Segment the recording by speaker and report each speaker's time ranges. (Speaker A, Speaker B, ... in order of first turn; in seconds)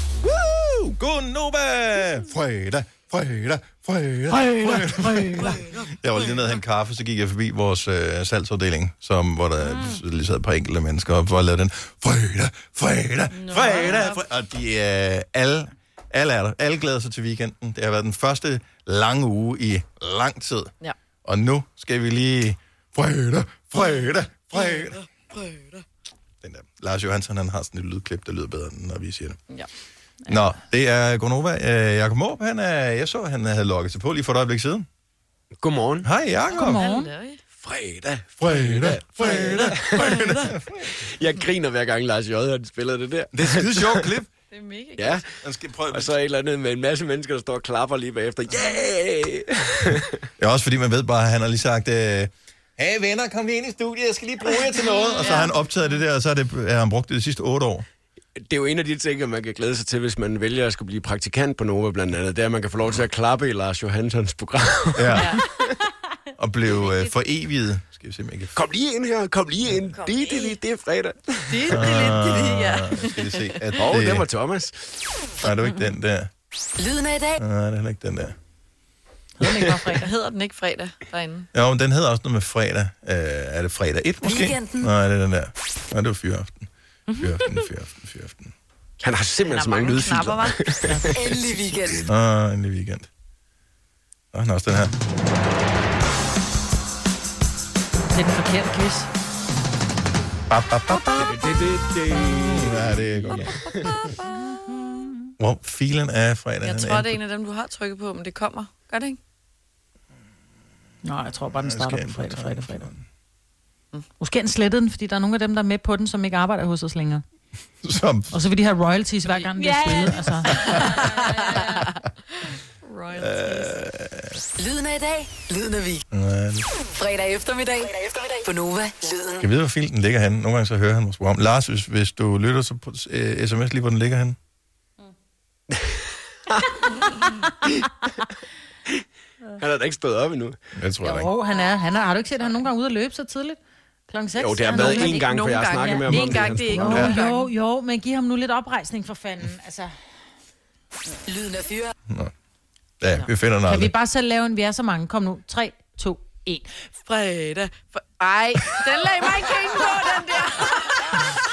Speaker A: 0.2-20.7, 21.2-25.0, 26.4-29.4, 30.3-34.8, 36.0-36.8, 38.4-40.9, 43.3-44.3, 45.3-46.1, 50.4-57.8, 64.9-65.4, 66.3-68.5, 71.7-74.3, 75.4-76.3, 77.3-78.3, 81.5-88.5, 92.1-93.1, 94.3-94.9, 100.5-101.3, 102.2-104.1, 105.4-107.2, 111.5-113.0, 117.8-118.4, 123.1-124.4, 126.1-126.7, 129.4-134.3, 140.8-141.3, 153.0-153.9
Speaker B: 4.6-5.5, 36.5-37.1, 79.4-80.1, 98.1-99.1, 104.5-105.0, 111.0-112.9, 114.2-117.2, 118.3-121.2, 141.0-149.9, 153.6-156.7
Speaker C: 13.3-14.2, 24.5-25.8, 36.5-37.4, 39.2-40.5, 44.5-45.2, 54.9-55.5, 65.1-65.4, 66.8-67.1, 69.9-70.6, 71.5-73.6, 79.4-81.5, 89.4-90.9, 106.6-109.2, 119.3-123.8, 144.7-147.5, 157.0-161.4
Speaker D: 35.6-36.1, 37.6-44.1, 45.0-45.2, 45.9-50.2, 58.4-65.7, 68.5-72.0, 73.7-75.3, 89.0-92.0, 101.1-104.1, 139.6-140.6, 144.3-147.1
Speaker E: 76.8-77.4, 84.2-84.9, 91.2-92.0, 124.5-126.0, 126.9-129.4, 151.3-151.9